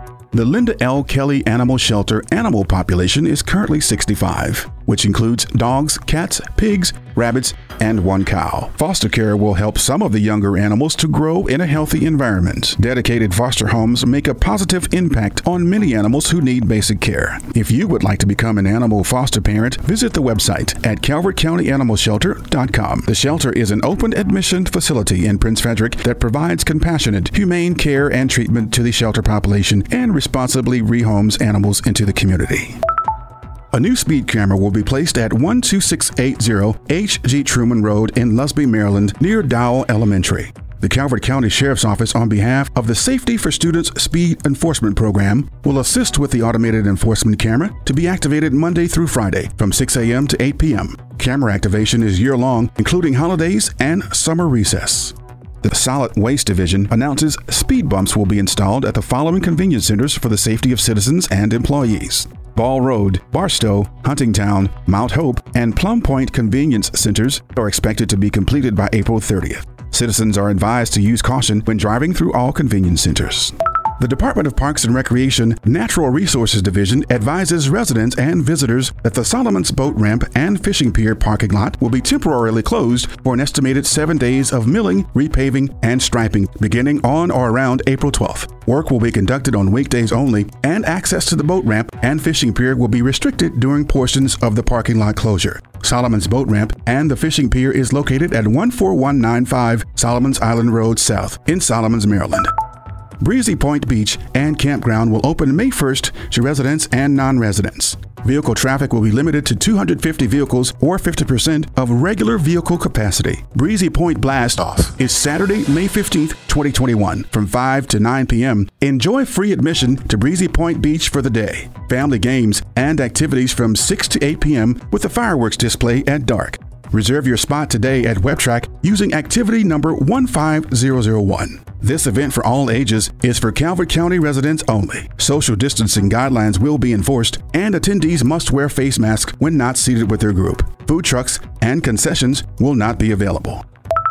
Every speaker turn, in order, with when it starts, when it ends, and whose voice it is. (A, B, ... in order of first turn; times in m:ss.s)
0:00.3-0:32.8 A
0:33.7-1:42.5 A
1:43.2-2:23.7 A